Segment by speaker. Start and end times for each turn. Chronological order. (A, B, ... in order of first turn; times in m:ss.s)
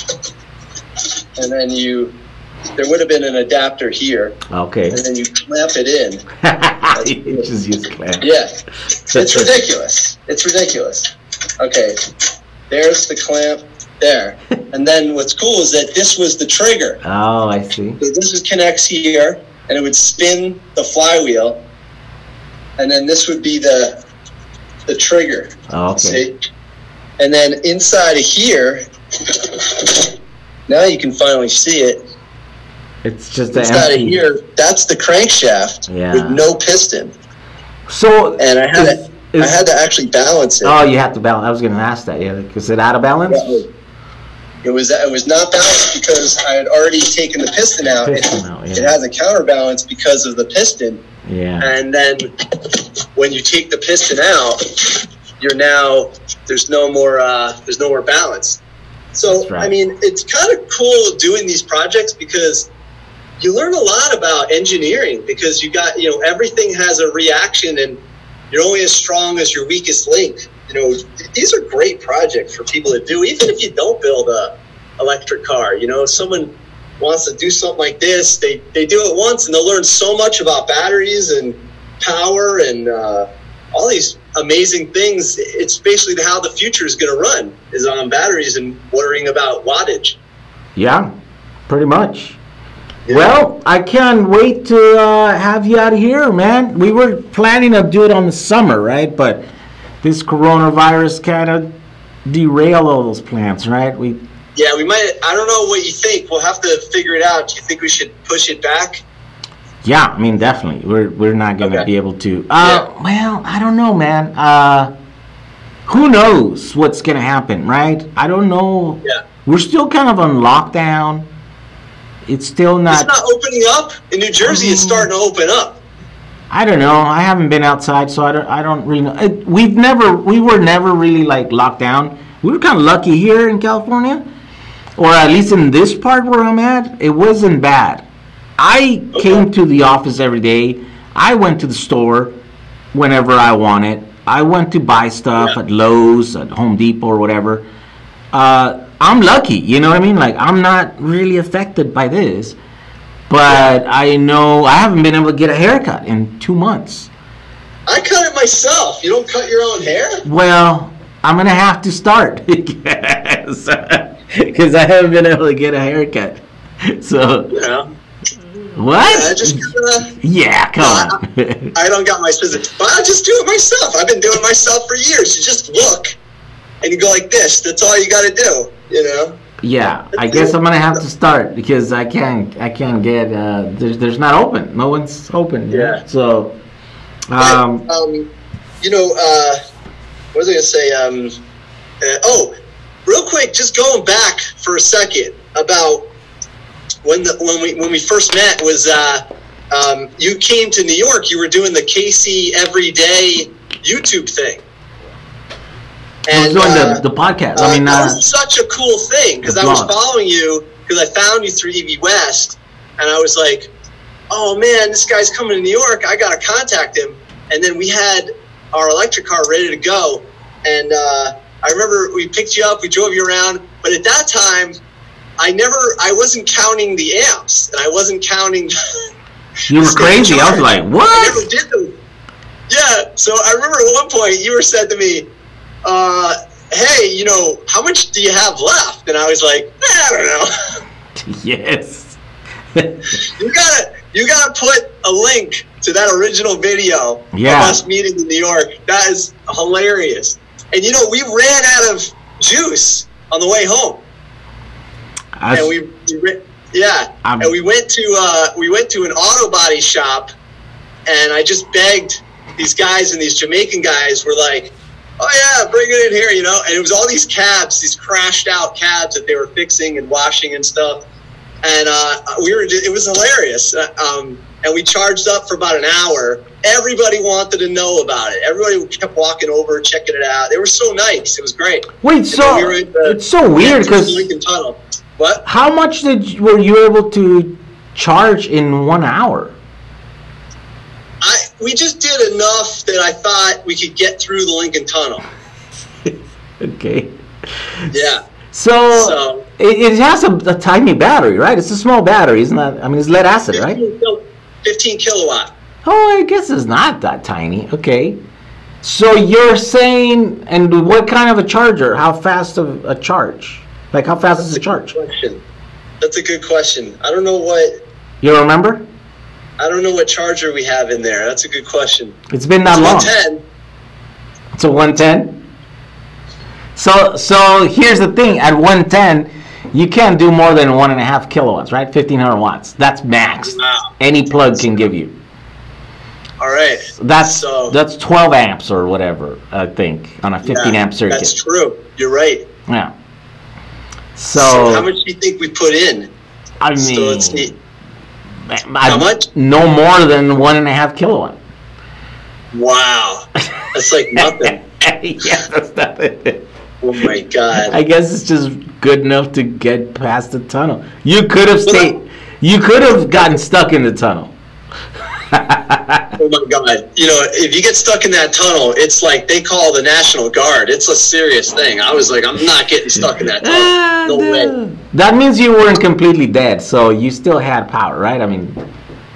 0:01.4-0:02.2 A
0:02.8-0:04.4 A
0:04.5-0:05.0 B
0:04.9-0:06.2 A
0:06.4-0:08.3 B
0:06.9-0:07.5 A
0:08.2-0:08.6 A
0:09.1-0:09.6 B
0:09.1-0:12.0 A
0:12.7-0:17.0 A
0:17.0-0:18.0 B
0:18.0-0:21.6 A
0:22.8-0:24.0 A
0:24.9-0:26.3 A
0:25.7-0:26.2 B
0:27.2-0:30.1 A
0:30.7-0:32.0 A
0:33.0-0:34.2 B
0:33.5-0:37.1 A
0:35.9-0:36.4 B
0:37.9-0:39.6 B
0:38.4-0:40.8 A
0:40.6-0:43.6 B
0:43.3-0:43.6 A
0:44.6-0:51.0 A
0:47.8-0:49.0 B
0:51.2-0:51.7 B
0:51.6-0:52.3 A
0:53.2-0:54.6 A
0:55.4-0:58.6 A
0:59.1-1:02.7 A
0:59.3-0:59.7 B
1:03.4-1:08.0 A
1:08.5-1:30.2 A
1:30.8-1:31.1 B
1:31.7-1:32.4 B
1:33.1-1:33.3 A
1:33.1-1:39.4 B
1:40.0-1:41.7 B
1:42.3-1:44.2 B
1:44.6-1:49.0 A
1:49.8-1:54.9 B
1:51.6-1:51.9 A
1:52.6-1:52.9 A
1:55.9-2:01.3 B
2:02.3-2:03.1 B
2:02.9-2:05.8 A
2:04.4-2:05.1 B
2:06.5-2:14.2 B
2:15.0-2:18.0 B
2:18.6-2:22.4 B
2:19.1-2:19.4 A
2:22.9-2:27.7 B
2:28.3-2:32.6 B
2:33.3-2:37.1 B
2:37.9-2:40.2 A
2:40.2-2:47.5 B
2:47.5-2:47.9 A
2:48.8-2:49.6 B
2:49.0-2:50.1 A
2:50.2-2:51.7 B
2:50.8-2:51.2 A
2:51.8-2:56.1 A
2:56.8-2:59.4 A
2:59.6-3:06.5 B
3:00.1-3:00.5 A
3:05.7-3:06.0 A
3:07.3-3:07.8 B
3:07.4-3:08.3 A
3:08.8-3:09.6 A
3:10.3-3:11.3 A
3:12.0-3:12.5 A
3:13.1-3:16.1 A
3:17.0-3:24.6 A
3:26.3-3:27.0 A
3:26.3-3:28.2 B
3:27.6-3:33.7 A
3:29.4-3:29.9 B
3:34.3-3:44.8 A
3:45.4-3:48.7 A
3:49.7-3:51.4 B
3:49.7-3:51.9 A
3:52.7-3:55.3 A
3:55.8-4:00.5 A
4:01.2-4:02.2 B
4:02.7-4:03.2 B
4:03.2-4:14.0 A
4:07.3-4:07.8 B
4:15.4-4:15.7 B
4:15.5-4:20.3 A
4:17.2-4:17.5 B
4:21.1-4:31.0 A
4:31.6-4:45.4 A
4:42.0-4:44.3 B
4:45.4-4:49.6 B
4:51.2-4:55.2 A
4:56.0-5:03.8 B
4:57.9-4:58.2 A
4:58.9-4:59.4 A
5:03.5-5:05.5 A
5:05.8-5:08.2 B
5:08.8-5:15.0 B
5:14.5-5:15.4 A
5:16.0-5:17.7 A
5:18.2-5:18.8 B
5:19.6-5:23.4 A
5:22.3-5:23.1 B
5:24.6-5:25.4 B
5:26.8-5:35.1 B
5:33.4-5:33.9 A
5:36.4-5:37.8 A
5:37.0-5:41.3 B
5:40.4-5:42.4 A
5:42.7-5:42.9 B
5:44.2-5:44.9 B
5:44.3-5:46.1 A
5:46.6-5:47.5 B
5:46.8-5:47.5 A
5:48.5-5:51.4 B
5:48.9-5:49.2 A
5:52.5-5:54.6 A
5:54.2-5:56.4 B
5:56.8-5:57.8 A
5:57.7-6:04.3 B
6:05.3-6:06.2 B
6:06.2-6:14.5 A
6:13.4-6:18.6 B